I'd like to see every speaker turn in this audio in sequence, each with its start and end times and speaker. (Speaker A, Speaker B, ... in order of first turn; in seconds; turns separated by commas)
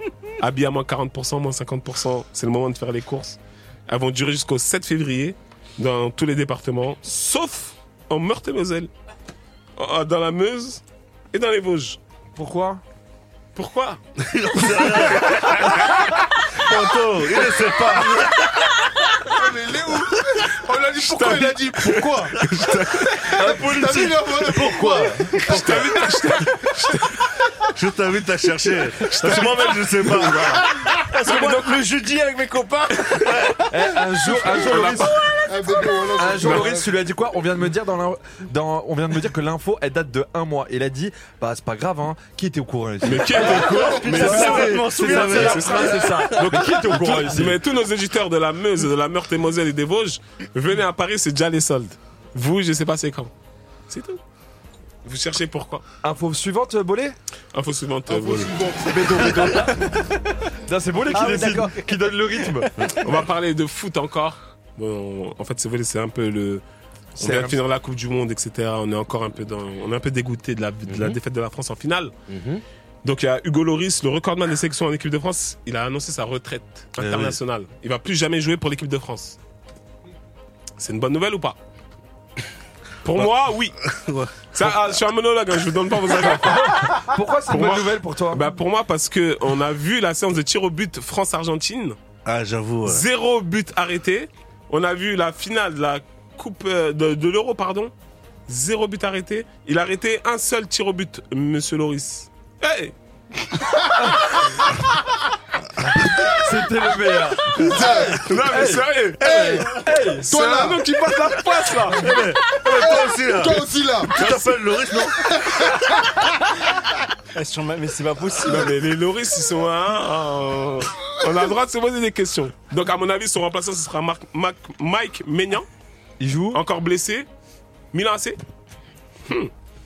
Speaker A: 0.4-8.9, Speaker A: 9.8-10.8, Speaker A: 11.3-12.0, Speaker B: 12.3-12.8, Speaker A: 13.5-14.0, Speaker C: 14.2-15.9, Speaker A: 15.1-15.9, Speaker C: 16.5-18.4, Speaker D: 19.2-22.4, Speaker A: 21.0-23.3, Speaker D: 23.2-25.9, Speaker B: 23.3-26.1, Speaker A: 25.4-27.3, Speaker C: 27.7-30.6, Speaker A: 29.0-31.8, Speaker E: 30.8-33.6, Speaker B: 33.7-35.2, Speaker A: 34.5-35.3, Speaker D: 35.5-36.9, Speaker B: 36.1-47.6, Speaker A: 36.4-36.7, Speaker A: 43.0-53.3, Speaker E: 43.3-45.9, Speaker C: 44.2-45.8, Speaker A: 53.9-54.2, Speaker A: 55.0-55.8, Speaker B: 56.0-57.1, Speaker A: 57.5-58.5, Speaker D: 58.1-59.7, Speaker B: 58.9-59.9, Speaker B: 60.7-62.7, Speaker E: 61.1-61.8, Speaker A: 63.0-66.6, Speaker B: 67.2-67.6, Speaker A: 67.2-72.1, Speaker C: 72.3-72.6, Speaker A: 73.0-79.4, Speaker C: 77.0-77.4, Speaker A: 80.8-81.6, Speaker A: 83.0-83.8, Speaker C: 83.9-84.9, Speaker A: 84.5-92.0, Speaker B: 86.1-88.4, Speaker C: 92.2-93.0, Speaker A: 92.8-97.9, Speaker A: 98.5-102.9, Speaker B: 106.0-107.8, Speaker D: 107.6-108.2, Speaker A: 108.2-109.3, Speaker B: 108.4-110.8, Speaker D: 109.2-109.7, Speaker D: 110.2-110.8, Speaker A: 110.3-112.2, Speaker C: 112.0-115.3, Speaker D: 112.7-114.2, Speaker A: 114.2-114.5, Speaker D: 115.3-116.3, Speaker E: 117.3-118.7, Speaker A: 118.4-125.7, Speaker B: 126.2-126.6, Speaker A: 126.5-127.3, Speaker A: 127.9-128.4